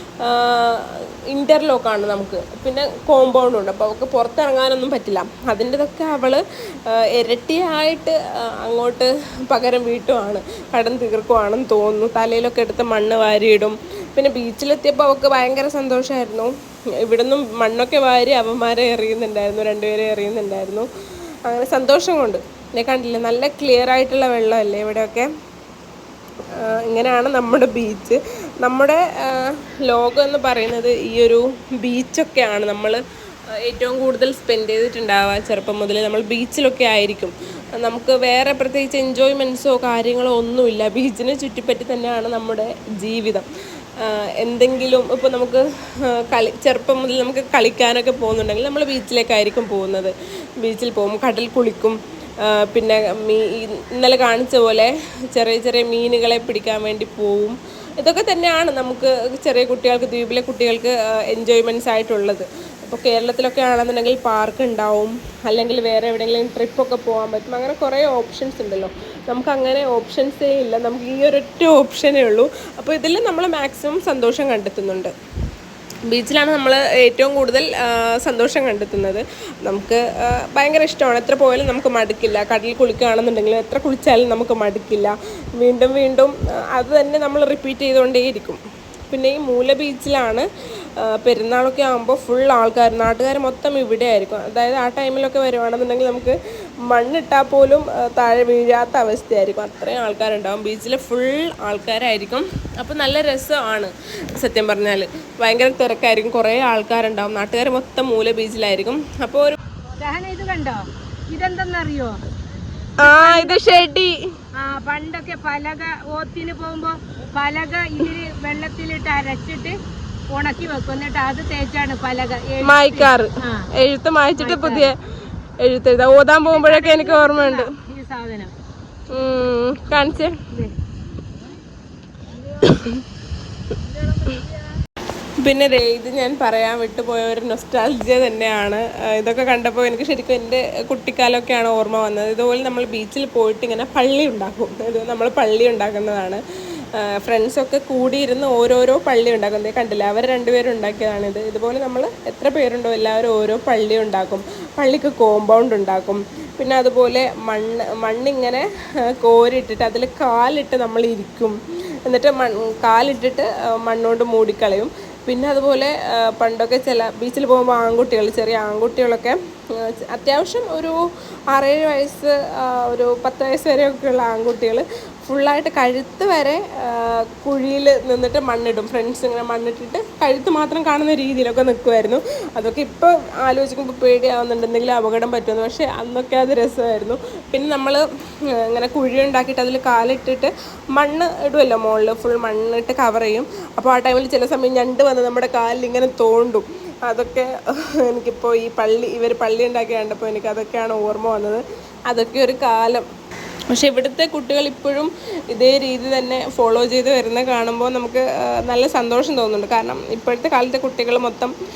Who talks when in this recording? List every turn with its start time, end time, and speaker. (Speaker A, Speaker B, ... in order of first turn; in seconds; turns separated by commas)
Speaker A: 0.2-16.5, Speaker A: 17.0-20.9, Speaker A: 21.4-25.3, Speaker A: 26.6-33.0, Speaker A: 33.6-43.5, Speaker A: 44.0-45.6, Speaker A: 46.1-75.1, Speaker A: 76.1-90.5, Speaker A: 91.0-96.3, Speaker A: 96.9-109.6, Speaker B: 110.0-112.2, Speaker A: 113.0-114.2, Speaker B: 113.0-113.6, Speaker B: 114.6-119.8, Speaker B: 120.3-123.6, Speaker A: 122.6-125.0, Speaker B: 124.4-124.9, Speaker A: 125.6-127.7, Speaker B: 126.3-128.5, Speaker A: 129.1-130.3, Speaker A: 132.6-132.9, Speaker A: 135.4-146.4, Speaker A: 147.0-158.7, Speaker A: 159.2-170.9, Speaker A: 171.5-188.0, Speaker A: 188.6-197.5, Speaker A: 198.0-203.0, Speaker A: 203.7-211.5